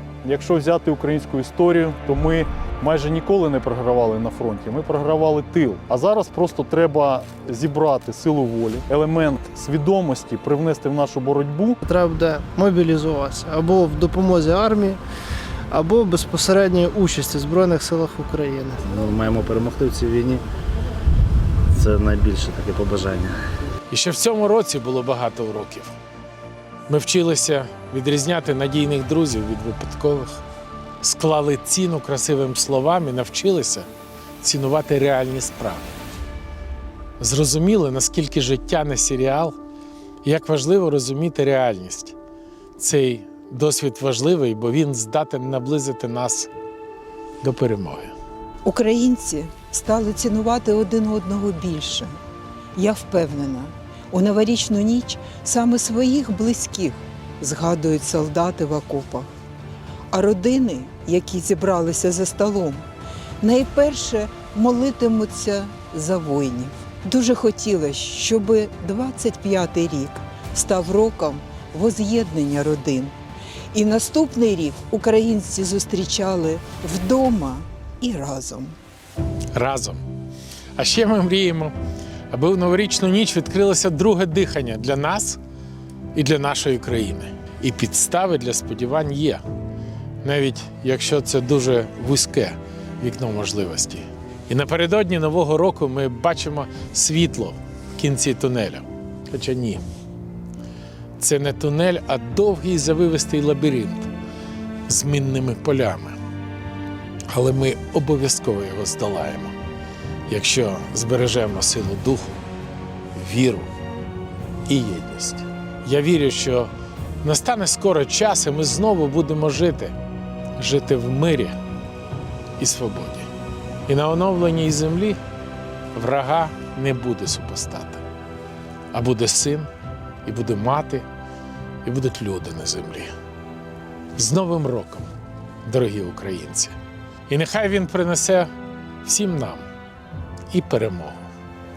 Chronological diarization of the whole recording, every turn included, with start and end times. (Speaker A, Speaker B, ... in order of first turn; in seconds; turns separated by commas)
Speaker A: 0.2-11.8, Speaker B: 11.9-15.0, Speaker B: 15.7-18.8, Speaker C: 18.8-20.4, Speaker C: 21.7-23.4, Speaker D: 23.9-25.9, Speaker D: 26.9-30.4, Speaker D: 31.0-33.9, Speaker D: 34.4-35.9, Speaker D: 37.2-39.5, Speaker D: 40.2-42.1, Speaker D: 42.8-46.5, Speaker D: 47.4-48.1, Speaker E: 48.6-52.1, Speaker E: 52.7-59.3, Speaker E: 60.1-62.9, Speaker E: 63.4-73.1, Speaker E: 73.7-78.8, Speaker D: 79.5-80.0, Speaker D: 80.8-81.7, Speaker D: 82.3-85.4, Speaker D: 86.1-89.4, Speaker D: 90.2-99.8, Speaker D: 101.2-104.1, Speaker D: 104.9-106.2, Speaker D: 107.3-109.5, Speaker D: 110.3-112.3, Speaker D: 113.1-113.7, Speaker D: 114.7-116.7, Speaker D: 117.2-119.9, Speaker D: 120.6-121.6, Speaker D: 122.6-123.3, Speaker D: 123.9-125.2, Speaker D: 125.9-128.0, Speaker D: 128.9-129.7, Speaker D: 130.2-131.1, Speaker D: 131.8-133.1, Speaker D: 134.2-135.1, Speaker D: 135.6-136.8, Speaker D: 137.3-138.5, Speaker D: 139.0-139.7, Speaker D: 140.5-141.2